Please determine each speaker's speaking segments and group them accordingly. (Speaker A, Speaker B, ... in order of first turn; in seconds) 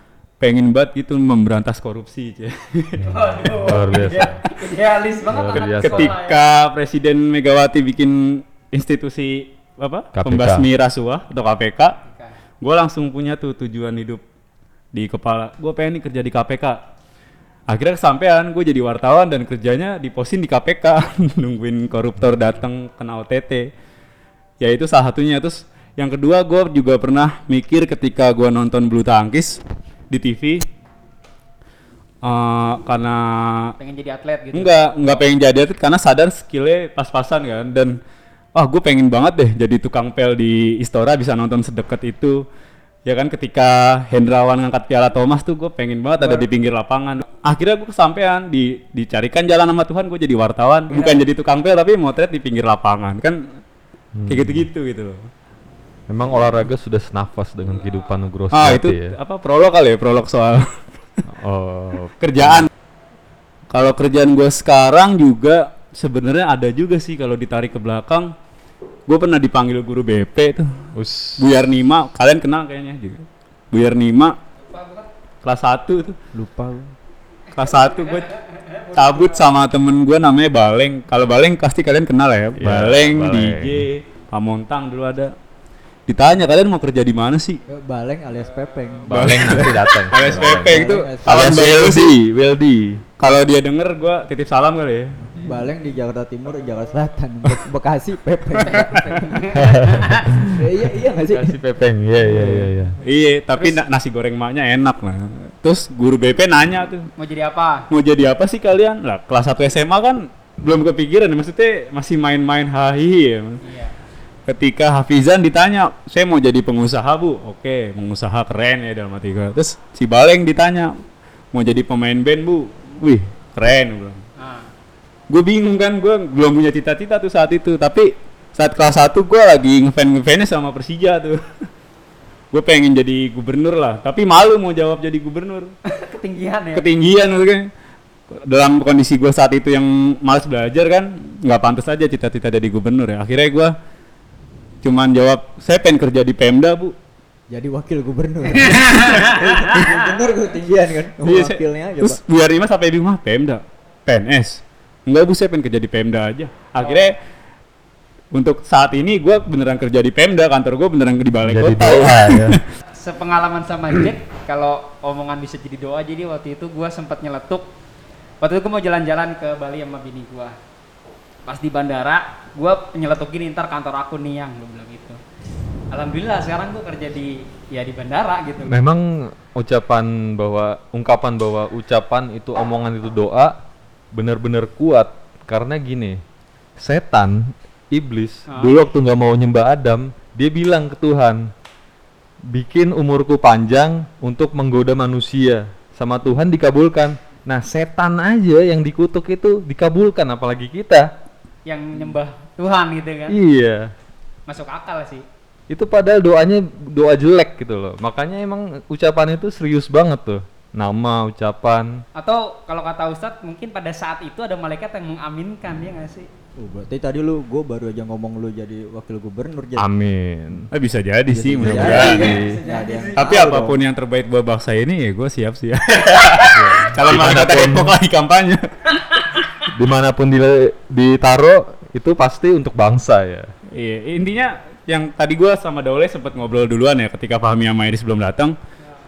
Speaker A: 0.4-4.2, 5.5-12.0, 12.6-14.2, 14.9-16.8, 17.7-23.7, 24.6-30.6, 32.2-33.7, 34.5-38.0, 38.5-42.4, 43.0-53.4, 54.3-55.3, 58.5-60.8, 62.2-62.7, 63.7-68.3, 69.1-70.7, 71.4-74.3, 75.4-76.2, 77.5-78.3, 79.0-85.3, 86.1-87.6, 89.1-92.1, 93.2-95.2, 98.5-99.2, 103.0-107.1, 107.9-113.6, 114.5-120.9, 121.5-124.2, 125.3-131.4, 132.5-135.7, 136.7-137.7, 138.3-143.7, 144.8-146.9, 151.2-157.2, 158.3-162.6, 220.7-222.3, 223.2-229.2, 233.7-238.6
Speaker B: 3.0-6.4, 12.0-12.3, 33.8-35.2, 46.2-46.5, 50.9-51.2, 74.6-75.1, 77.6-79.4, 98.6-100.3, 103.5-103.8, 107.2-107.9, 113.6-113.9, 124.4-124.7, 135.8-136.8, 148.7-149.9, 156.8-157.1, 163.0-167.7, 168.4-170.6, 171.4-175.2, 175.9-178.7, 188.5-188.8, 201.7-203.4, 204.5-205.2, 212.2-216.3, 221.9-223.4
Speaker C: 3.0-4.4, 5.2-6.1, 10.1-10.7, 54.1-54.7, 56.1-59.1, 61.3-62.7, 70.9-71.5, 82.6-83.9, 89.1-93.0, 99.5-100.6, 101.3-103.0, 161.4-162.6, 178.6-183.5, 184.1-186.2, 186.8-191.5, 192.5-201.1, 203.3-203.9, 205.7-212.0, 219.8-220.7, 221.6-222.6, 226.5-227.9, 229.7-233.5
Speaker D: 76.3-76.9, 87.7-91.7, 95.3-99.6, 100.3-101.6, 102.2-102.7, 147.5-152.2, 216.6-219.9, 221.3-223.8